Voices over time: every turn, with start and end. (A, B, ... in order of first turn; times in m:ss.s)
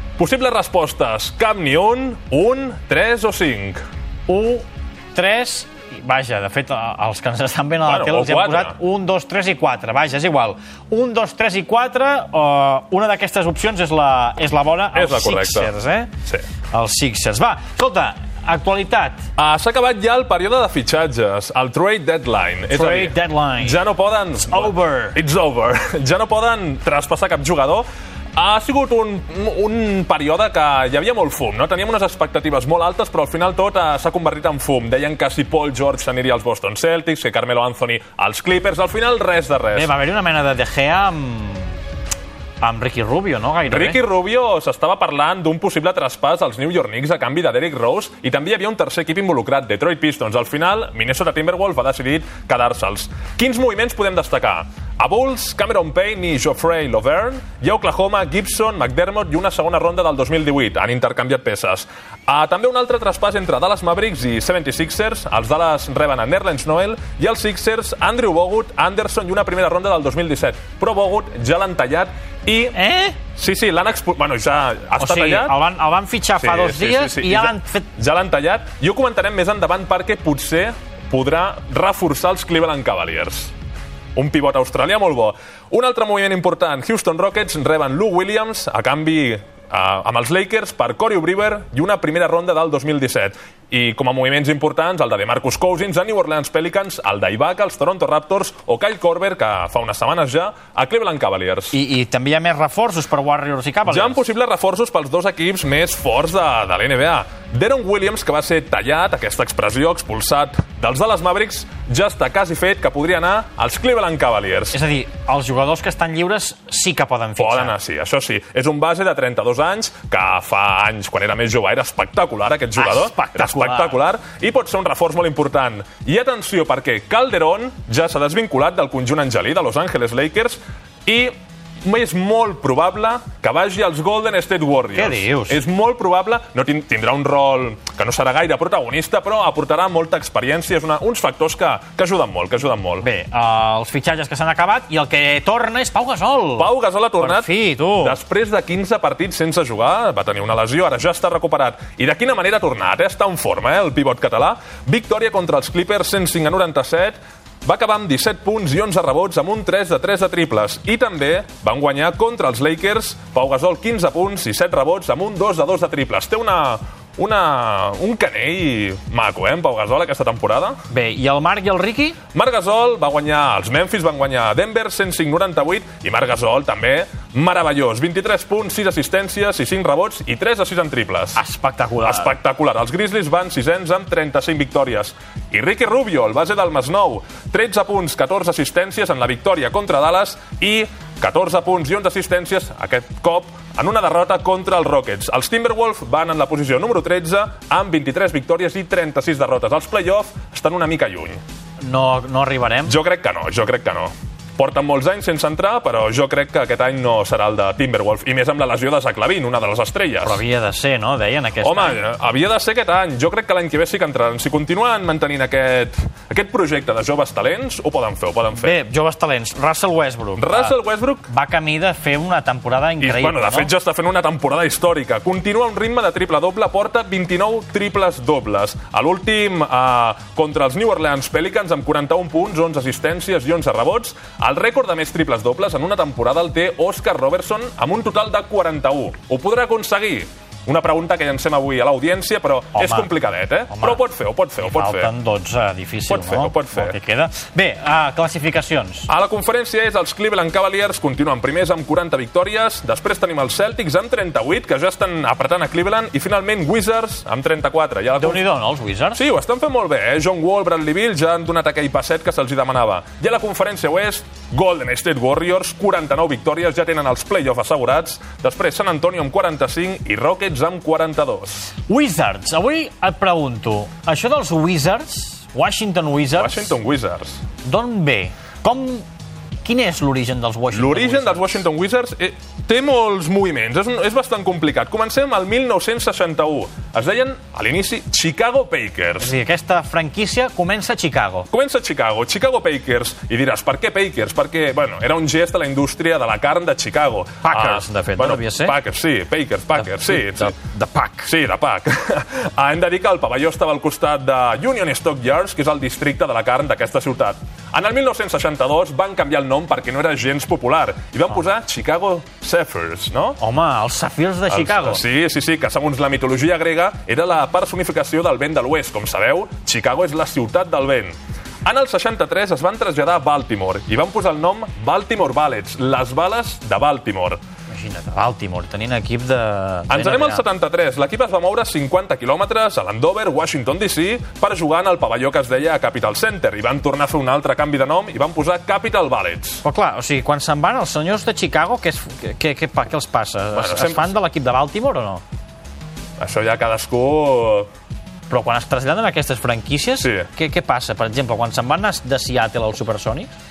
0:00.2-0:03.8 A
0:04.3-0:16.1 B
0:07.8-0:08.8 A
0:14.9-0:15.7 A
0:16.7-0:19.3 B
0:19.4-0:39.9 A
0:22.7-0:23.8 B
0:24.4-0:25.2 B
0:39.7-0:41.7 B
0:42.6-0:44.0 B
0:43.7-1:12.8 A
1:12.7-1:13.2 B
1:13.3-1:15.6 A
1:15.0-1:17.9 B
1:16.4-1:23.5 A
1:24.2-1:41.8 A
1:41.7-1:44.3 B
1:43.9-1:54.8 A
1:54.7-1:57.7 B
1:57.4-2:23.1 A
2:02.8-2:04.0 B
2:14.9-2:15.6 B
2:23.0-2:28.2 B
2:26.6-2:50.8 A
2:50.9-2:52.2 B
2:52.3-3:01.4 A
3:01.4-3:02.4 B
3:02.0-3:21.4 A
3:21.8-3:23.0 B
3:22.8-3:30.4 A
3:30.2-3:32.0 B
3:31.6-3:38.7 A
3:38.5-3:40.8 B
3:40.4-3:41.3 A
3:41.3-3:43.7 B
3:43.0-4:05.1 A
4:02.7-4:03.1 B
4:03.7-4:04.0 B
4:04.6-4:09.1 B
4:06.1-4:07.0 A
4:09.1-4:18.4 A
4:18.2-4:19.2 B
4:19.1-4:31.7 A
4:31.9-4:36.7 B
4:36.4-4:37.4 A
4:37.6-4:39.0 B
4:39.6-4:41.6 B
4:40.7-4:49.3 A
4:49.2-4:51.5 B
4:51.5-5:00.5 A
4:57.4-4:58.8 B
4:59.8-5:01.3 B
5:01.2-5:13.4 A
5:13.4-5:15.0 B
5:14.5-5:27.4 A
5:27.7-5:30.4 B
5:29.9-5:39.6 A
5:39.6-5:45.2 B
5:43.5-5:44.1 A
5:46.2-5:47.7 A
5:48.3-5:53.3 B
5:50.0-5:50.3 A